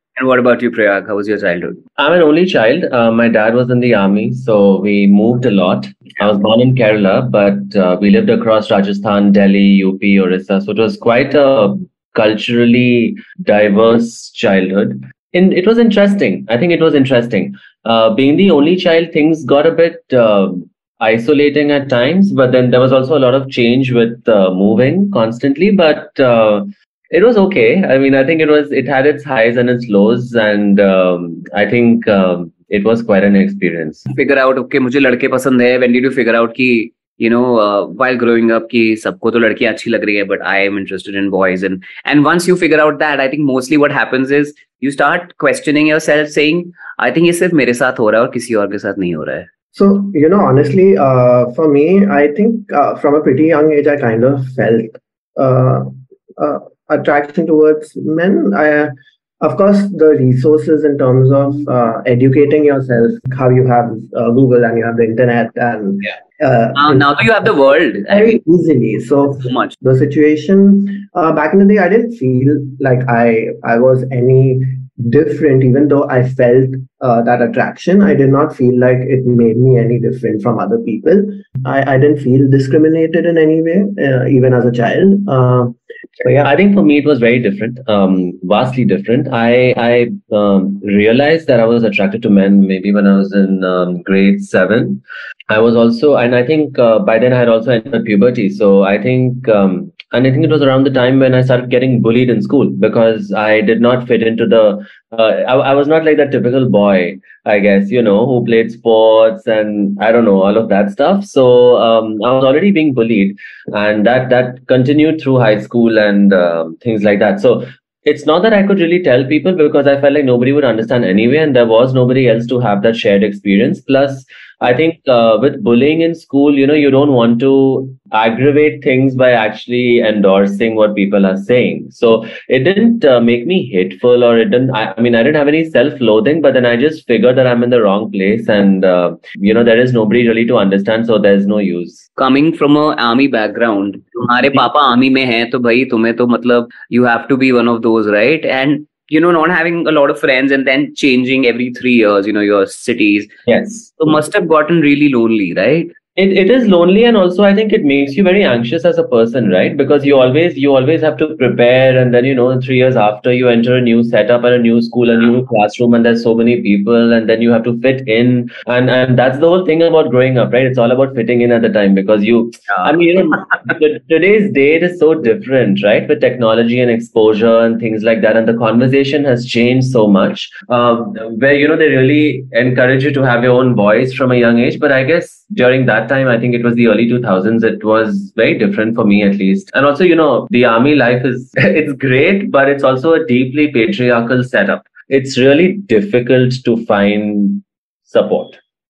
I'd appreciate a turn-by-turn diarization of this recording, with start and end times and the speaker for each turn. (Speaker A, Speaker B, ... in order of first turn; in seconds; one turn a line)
Speaker A: 0.1-1.8
Speaker B: 2.0-34.1
Speaker A: 34.1-49.5
Speaker C: 49.7-67.5
Speaker A: 66.8-68.4
Speaker C: 68.1-86.5
Speaker A: 69.4-69.8
Speaker B: 86.4-142.0
Speaker A: 142.2-153.3
Speaker B: 153.5-154.0
Speaker A: 154.0-155.9
Speaker B: 156.2-198.6